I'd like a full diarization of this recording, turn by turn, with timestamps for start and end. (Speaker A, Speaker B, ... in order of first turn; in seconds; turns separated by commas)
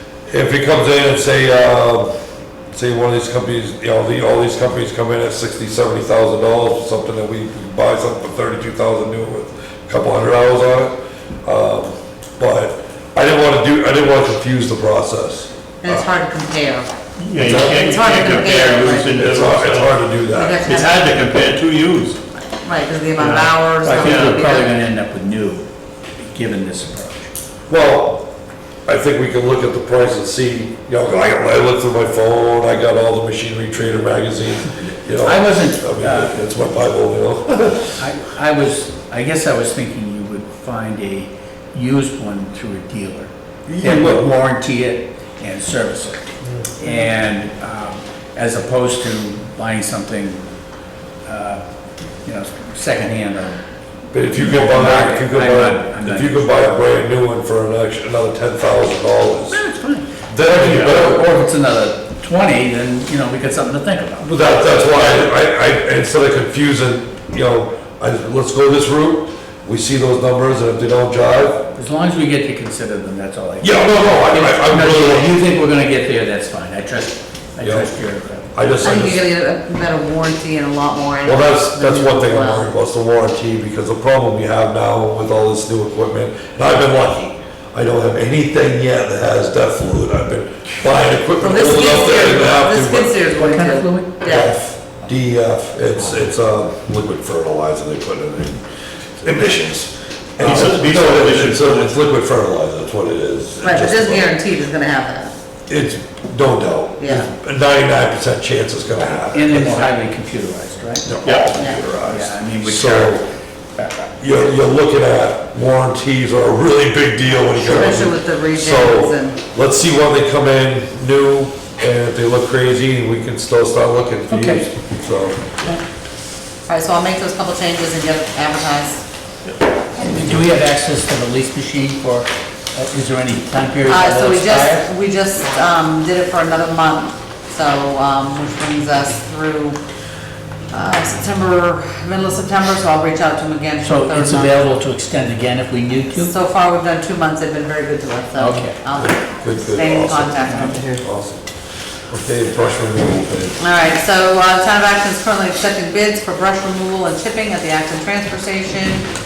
Speaker A: 0.3-2.1, Speaker A: 2.7-16.1, Speaker B: 15.8-19.1, Speaker C: 17.2-20.0, Speaker A: 17.4-17.8, Speaker A: 18.9-20.7, Speaker B: 20.3-21.0, Speaker C: 20.6-22.2, Speaker B: 22.4-24.7, Speaker C: 23.2-24.4, Speaker D: 23.3-25.6, Speaker D: 26.2-27.3, Speaker A: 27.7-28.3, Speaker A: 28.9-38.0, Speaker D: 35.2-36.5, Speaker D: 38.0-50.5, Speaker A: 43.6-44.3, Speaker D: 51.2-51.6, Speaker D: 52.2-53.6, Speaker A: 54.1-59.6, Speaker D: 54.3-56.5, Speaker D: 59.5-64.9, Speaker A: 60.3-61.3, Speaker A: 64.2-71.6, Speaker D: 71.7-79.0, Speaker A: 73.6-75.4, Speaker A: 77.6-77.9, Speaker A: 78.5-79.2, Speaker B: 78.8-82.7, Speaker A: 81.2-93.2, Speaker B: 91.4-94.6, Speaker D: 93.3-94.1, Speaker A: 94.2-98.6, Speaker A: 99.2-104.3, Speaker C: 100.4-102.0, Speaker B: 103.6-105.3, Speaker A: 105.7-109.9, Speaker B: 107.0-107.3, Speaker D: 109.3-111.2, Speaker A: 111.0-113.2, Speaker C: 111.2-111.5, Speaker B: 111.6-111.8, Speaker D: 111.9-114.1, Speaker A: 114.2-125.7, Speaker B: 117.5-119.4, Speaker D: 124.3-124.6, Speaker B: 126.7-129.1, Speaker D: 130.0-134.9, Speaker B: 133.8-139.8, Speaker B: 140.7-144.7, Speaker D: 143.8-146.3, Speaker B: 146.2-150.9, Speaker D: 148.4-148.8, Speaker A: 149.0-151.5, Speaker D: 150.5-150.9, Speaker A: 152.1-153.6, Speaker B: 153.6-159.1